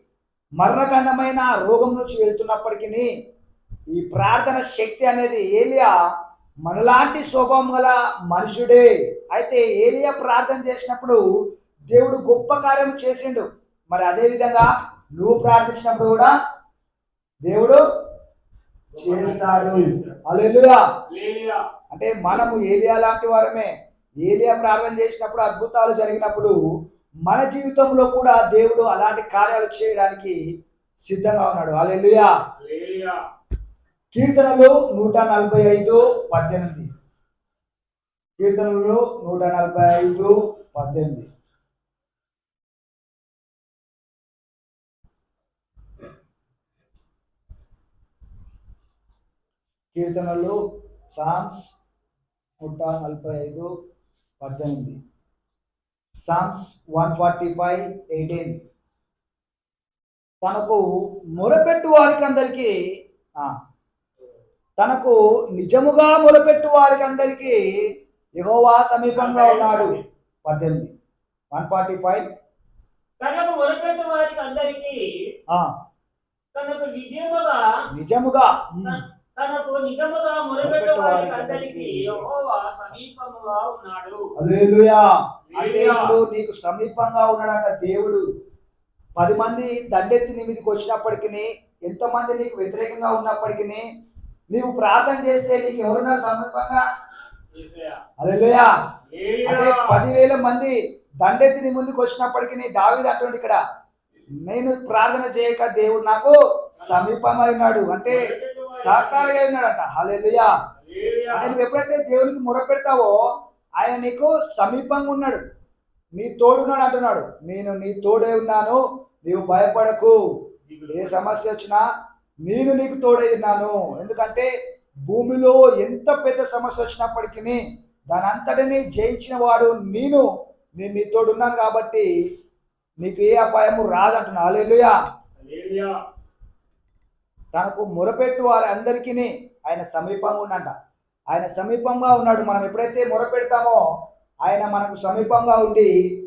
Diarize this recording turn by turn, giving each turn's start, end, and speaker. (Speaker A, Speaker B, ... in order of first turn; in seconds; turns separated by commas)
Speaker A: 0.6-3.1, Speaker A: 4.0-5.9, Speaker A: 6.7-11.2, Speaker A: 11.9-16.3, Speaker A: 17.5-17.8, Speaker B: 18.9-20.2, Speaker A: 19.0-20.8, Speaker B: 21.1-21.6, Speaker A: 21.9-23.7, Speaker A: 24.2-26.6, Speaker A: 27.3-30.4, Speaker A: 31.1-32.3, Speaker B: 32.6-33.2, Speaker A: 34.1-36.9, Speaker A: 38.4-41.3, Speaker A: 49.9-50.6, Speaker A: 51.1-51.6, Speaker A: 52.6-53.7, Speaker A: 54.4-55.0, Speaker A: 56.3-58.6, Speaker A: 60.4-60.8, Speaker A: 61.4-62.7, Speaker A: 64.8-67.6, Speaker A: 68.4-70.9, Speaker B: 69.1-70.0, Speaker A: 71.5-72.2, Speaker B: 73.2-75.0, Speaker B: 76.5-77.8, Speaker A: 77.9-79.0, Speaker B: 78.8-84.3, Speaker A: 80.6-82.3, Speaker A: 84.4-88.2, Speaker B: 85.5-86.2, Speaker A: 89.2-93.9, Speaker A: 94.5-96.8, Speaker B: 97.5-98.0, Speaker A: 98.2-98.7, Speaker B: 99.1-100.0, Speaker A: 99.4-103.6, Speaker A: 104.4-110.5, Speaker B: 106.8-107.1, Speaker B: 108.1-109.4, Speaker B: 110.8-111.6, Speaker A: 111.3-113.2, Speaker A: 113.8-115.4, Speaker A: 116.2-120.2, Speaker B: 120.7-121.5, Speaker A: 120.9-121.8, Speaker A: 122.5-124.5, Speaker A: 125.1-130.2, Speaker A: 130.8-132.1, Speaker A: 133.0-134.9, Speaker B: 135.4-136.0, Speaker A: 137.5-140.8, Speaker A: 141.3-143.8, Speaker A: 144.4-145.9